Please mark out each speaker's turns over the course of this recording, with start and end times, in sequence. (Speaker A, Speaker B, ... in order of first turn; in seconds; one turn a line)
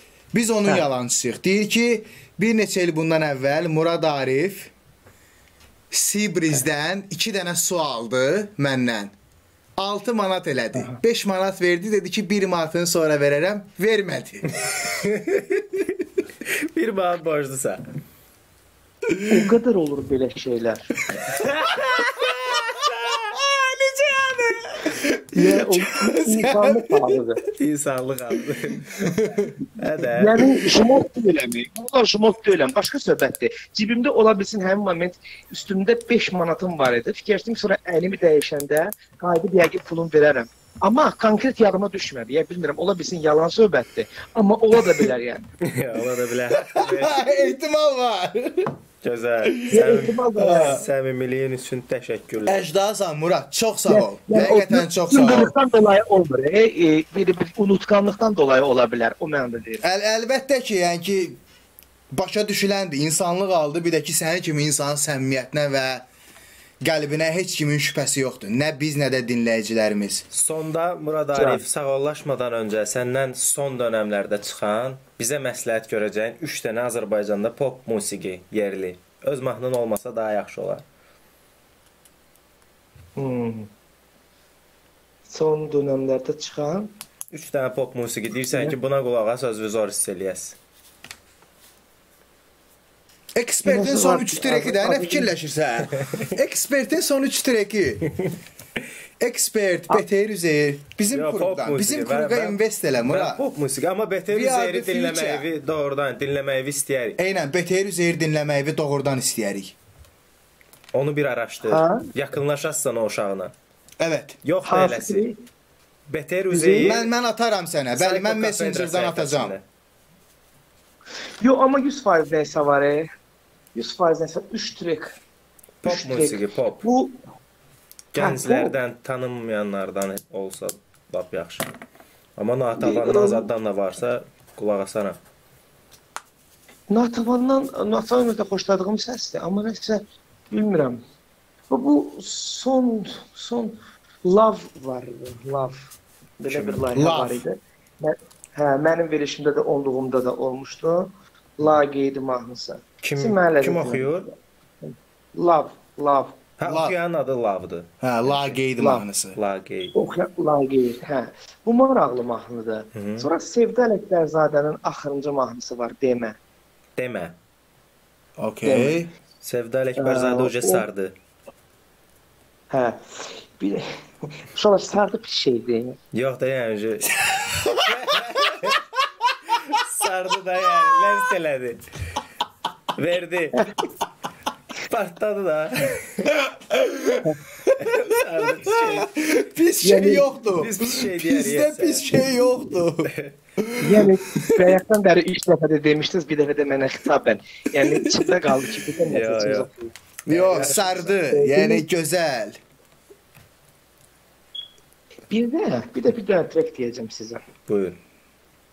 Speaker A: 0.3-4.7
Speaker A: 5.9-9.1
Speaker A: 9.8-14.4
Speaker B: 14.7-15.8
Speaker B: 16.4-17.8
Speaker A: 19.1-19.4
Speaker C: 19.3-21.0
Speaker B: 21.1-24.9
Speaker A: 24.9-26.8
Speaker C: 25.3-27.4
Speaker B: 27.6-29.0
Speaker A: 28.8-29.5
Speaker B: 29.8-30.5
Speaker C: 30.2-45.5
Speaker B: 45.6-47.4
Speaker A: 46.7-48.7
Speaker B: 49.0-52.6
Speaker A: 49.5-50.8
Speaker C: 49.7-50.8
Speaker A: 52.5-55.5
Speaker C: 53.9-59.8
Speaker A: 59.8-61.4
Speaker A: 62.1-66.1
Speaker A: 66.8-70.2
Speaker B: 70.3-80.8
Speaker C: 71.3-71.6
Speaker C: 83.2-83.7
Speaker C: 85.3-86.9
Speaker B: 87.3-90.6
Speaker C: 88.5-88.8
Speaker A: 93.3-98.1
Speaker C: 93.6-95.3
Speaker B: 96.0-96.3
Speaker A: 99.2-103.4
Speaker B: 101.1-107.2
Speaker A: 104.3-105.5
Speaker A: 107.2-109.8
Speaker B: 110.9-113.5
Speaker C: 111.6-112.0
Speaker A: 114.0-114.4
Speaker B: 114.4-115.2
Speaker C: 114.7-115.4
Speaker B: 116.1-117.1
Speaker C: 116.5-117.0
Speaker A: 116.8-119.5
Speaker B: 117.9-119.6
Speaker C: 121.4-123.1
Speaker C: 123.8-125.2
Speaker B: 125.8-126.8
Speaker C: 125.8-127.2
Speaker B: 128.1-131.7
Speaker C: 128.2-128.8
Speaker B: 132.4-135.2
Speaker C: 132.8-133.5
Speaker C: 136.9-141.0
Speaker C: 141.7-154.3
Speaker B: 146.5-146.9
Speaker A: 146.9-147.4
Speaker B: 153.0-154.3
Speaker C: 154.8-156.5
Speaker B: 156.6-158.6
Speaker A: 156.6-157.0
Speaker A: 158.0-159.4
Speaker C: 158.8-159.1
Speaker B: 159.3-159.9
Speaker C: 159.9-166.4
Speaker B: 162.9-163.3
Speaker B: 167.0-167.4
Speaker A: 168.4-169.1
Speaker C: 168.6-169.0
Speaker B: 169.4-171.1
Speaker C: 170.0-170.8
Speaker C: 172.7-176.0
Speaker B: 176.1-177.2
Speaker A: 177.2-178.7
Speaker B: 177.9-178.8
Speaker B: 179.6-181.8
Speaker B: 183.0-183.7
Speaker B: 184.9-186.3
Speaker A: 186.4-188.1
Speaker B: 187.8-189.1
Speaker A: 188.7-194.7
Speaker C: 189.8-190.3
Speaker B: 190.6-192.1
Speaker B: 193.1-193.3
Speaker C: 193.8-201.8
Speaker A: 197.9-198.2
Speaker B: 199.1-199.7
Speaker A: 200.3-202.6
Speaker C: 205.3-207.4
Speaker B: 207.7-208.0